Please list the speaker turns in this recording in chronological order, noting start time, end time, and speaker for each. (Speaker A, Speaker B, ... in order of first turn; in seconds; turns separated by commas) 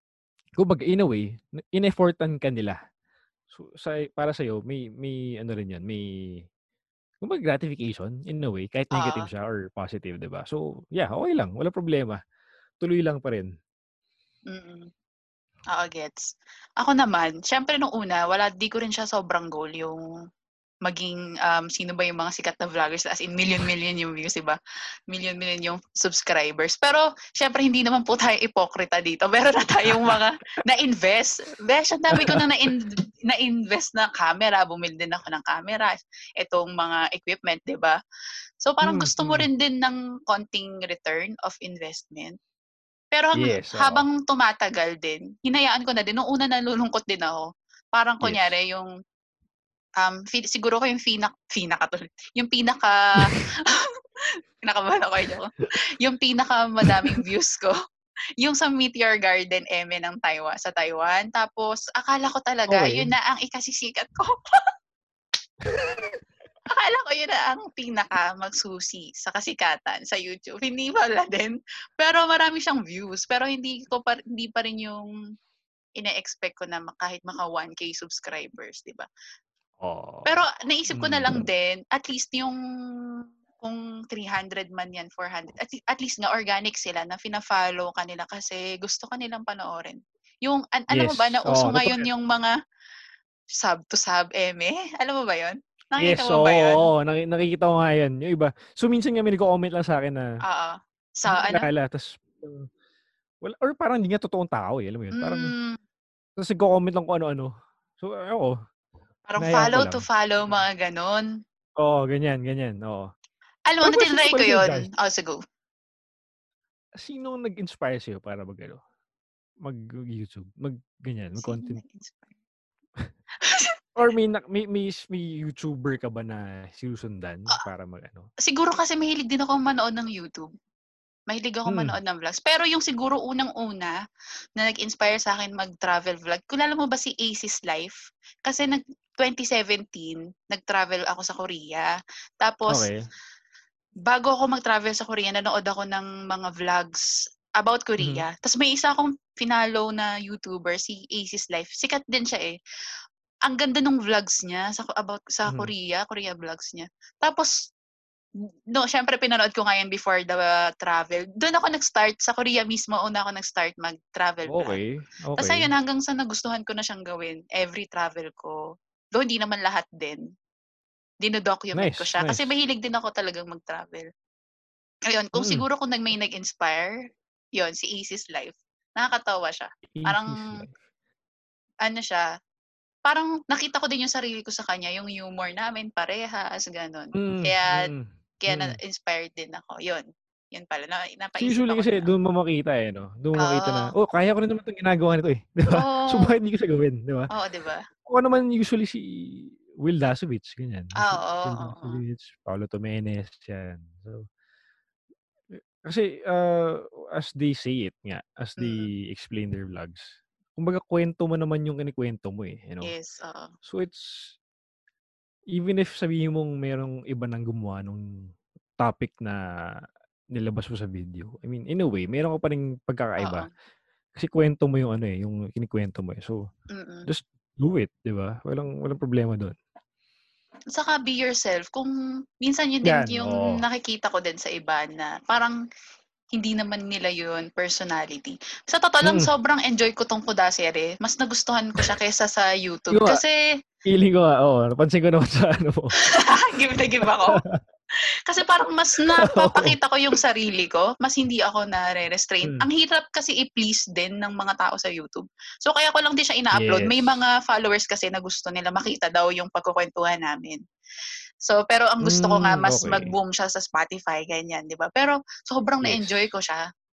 Speaker A: 0.6-2.8, Speaker A: 3.5-6.0, Speaker A: 7.2-12.2, Speaker B: 8.9-9.3, Speaker A: 12.8-13.5, Speaker B: 14.5-14.9, Speaker B: 15.7-16.2, Speaker B: 16.8-20.0, Speaker B: 20.9-24.6, Speaker B: 25.1-38.0, Speaker A: 29.9-30.2, Speaker A: 32.1-32.7, Speaker B: 38.6-42.4, Speaker A: 38.8-39.5, Speaker B: 43.1-48.9, Speaker A: 43.4-44.1, Speaker A: 48.2-48.5, Speaker B: 50.0-53.9, Speaker B: 54.6-57.7, Speaker A: 56.8-57.2, Speaker B: 58.4-64.3, Speaker A: 62.7-63.1, Speaker A: 65.7-66.0, Speaker B: 66.7-75.1, Speaker B: 76.0-79.0, Speaker A: 79.8-80.3, Speaker B: 80.2-82.5, Speaker A: 80.9-81.5, Speaker B: 83.6-92.5, Speaker A: 90.9-92.1, Speaker B: 93.6-96.8, Speaker A: 96.0-100.2, Speaker B: 100.5-101.7, Speaker A: 101.3-102.7, Speaker A: 103.4-105.5, Speaker B: 105.2-105.8, Speaker A: 106.4-108.5, Speaker B: 109.3-111.2, Speaker A: 109.4-110.0, Speaker A: 111.8-113.1, Speaker B: 113.7-115.4, Speaker A: 113.8-114.9, Speaker A: 117.0-118.8, Speaker A: 119.6-121.8, Speaker B: 121.4-122.3, Speaker B: 123.4-123.7, Speaker A: 124.0-128.3, Speaker B: 128.4-130.5, Speaker B: 131.3-134.0, Speaker A: 131.7-132.0, Speaker B: 134.6-141.9, Speaker B: 142.4-142.9, Speaker A: 142.7-143.0, Speaker B: 144.1-147.0, Speaker B: 147.6-152.6, Speaker A: 148.0-148.2, Speaker B: 153.5-157.5, Speaker A: 155.4-155.7, Speaker B: 158.7-164.8, Speaker A: 164.5-165.7, Speaker B: 165.4-168.6, Speaker B: 169.1-170.2, Speaker B: 171.2-174.1, Speaker A: 171.7-172.5, Speaker B: 175.1-176.9, Speaker A: 175.3-175.7, Speaker B: 177.6-180.6, Speaker A: 179.9-180.7, Speaker B: 181.8-182.2, Speaker B: 183.0-187.9, Speaker A: 187.1-188.8, Speaker B: 188.4-192.1, Speaker A: 191.4-197.3, Speaker B: 193.4-193.9, Speaker B: 195.7-196.4, Speaker B: 197.3-197.8, Speaker A: 198.1-204.2, Speaker B: 201.0-202.0, Speaker A: 205.9-210.0, Speaker A: 210.6-212.9, Speaker B: 212.8-213.5, Speaker A: 213.7-214.3, Speaker A: 215.6-218.0, Speaker A: 218.8-219.4, Speaker A: 220.3-223.5, Speaker B: 223.2-223.5, Speaker A: 224.2-226.4, Speaker B: 226.7-227.1, Speaker A: 227.1-229.6, Speaker B: 230.7-231.9, Speaker B: 232.4-235.6, Speaker A: 232.8-233.6, Speaker B: 236.3-243.3, Speaker A: 239.0-239.3, Speaker A: 242.9-243.2, Speaker A: 243.9-245.9, Speaker B: 246.1-247.4, Speaker A: 247.0-247.6, Speaker B: 248.3-260.6, Speaker A: 249.0-249.8, Speaker A: 252.4-252.7, Speaker A: 256.5-257.2, Speaker B: 261.4-266.6, Speaker A: 262.0-263.1, Speaker A: 265.8-266.3